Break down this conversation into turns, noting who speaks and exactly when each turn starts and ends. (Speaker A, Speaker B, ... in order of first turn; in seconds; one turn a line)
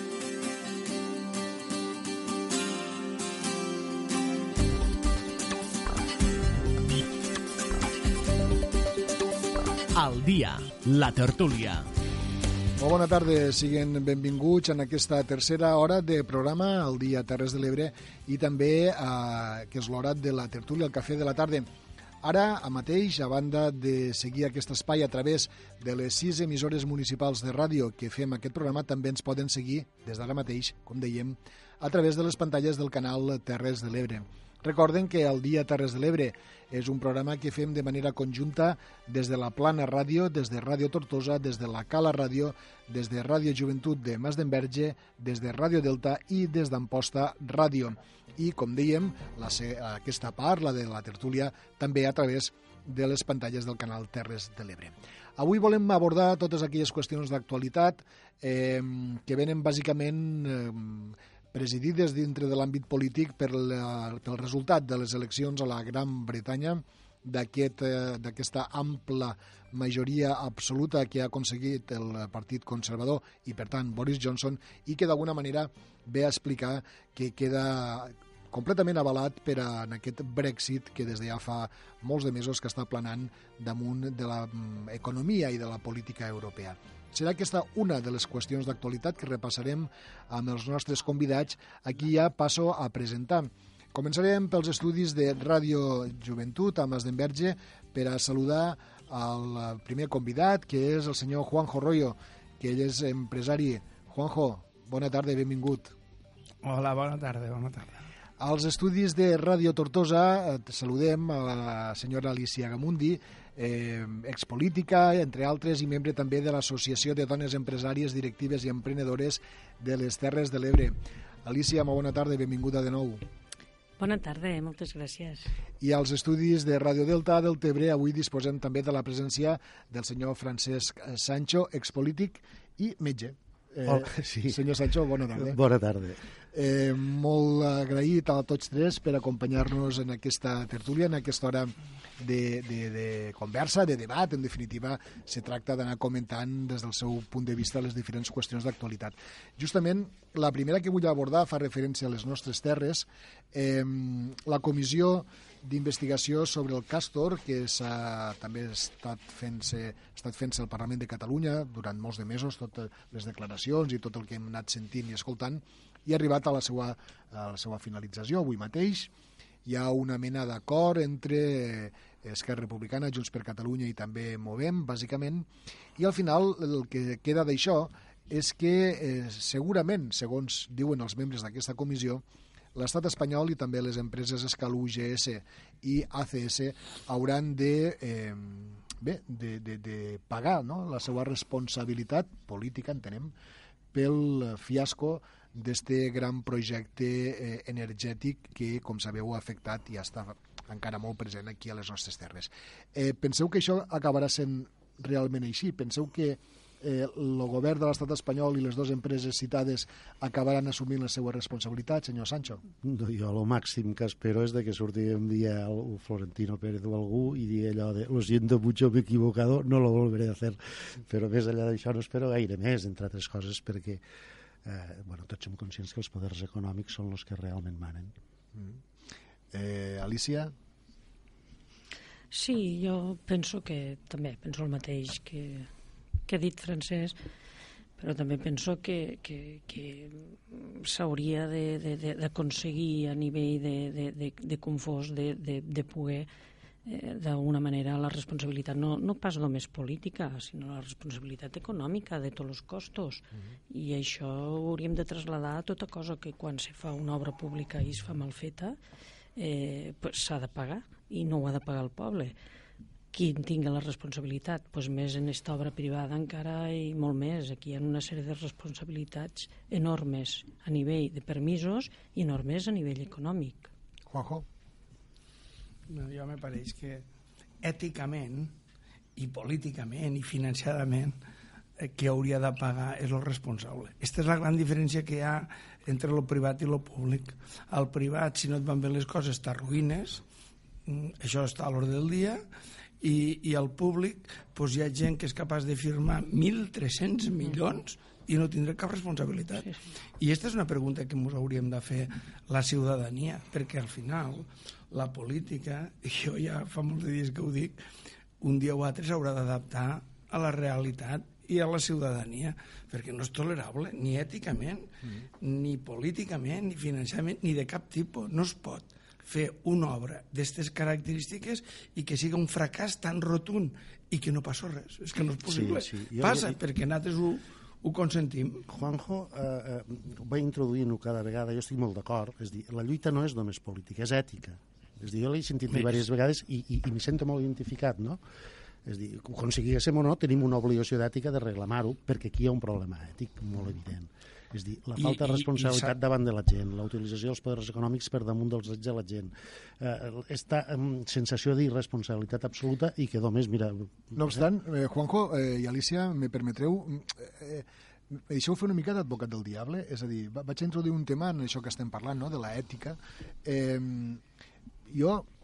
Speaker A: 9.9-11.9
Speaker B: 12.8-21.7
Speaker B: 22.2-105.9
Speaker C: 106.6-108.0
Speaker B: 108.4-123.2
Speaker D: 124.0-125.5
Speaker B: 125.8-135.6
Speaker E: 133.8-134.7
Speaker E: 135.3-136.2
Speaker B: 136.5-169.1
Speaker B: 169.6-182.2
Speaker B: 182.7-193.3
Speaker B: 193.9-212.6
Speaker E: 212.8-224.0
Speaker E: 224.6-228.1
Speaker B: 228.5-228.8
Speaker B: 229.5-230.5
Speaker D: 232.3-235.7
Speaker D: 236.3-237.2
Speaker D: 238.0-246.3
Speaker D: 246.8-258.8
Speaker D: 259.4-262.3
Speaker D: 263.1-273.7
Speaker B: 274.1-274.4
Speaker C: 275.9-277.0
Speaker C: 277.6-278.5
Speaker C: 279.1-281.1
Speaker C: 281.8-290.2
Speaker C: 290.9-292.4
Speaker C: 293.0-307.8
Speaker C: 308.4-314.9
Speaker C: 315.4-328.6
Speaker E: 325.4-326.6
Speaker E: 328.7-338.2
Speaker E: 338.8-354.4
Speaker C: 345.0-345.9
Speaker B: 354.1-364.2
Speaker B: 364.9-365.3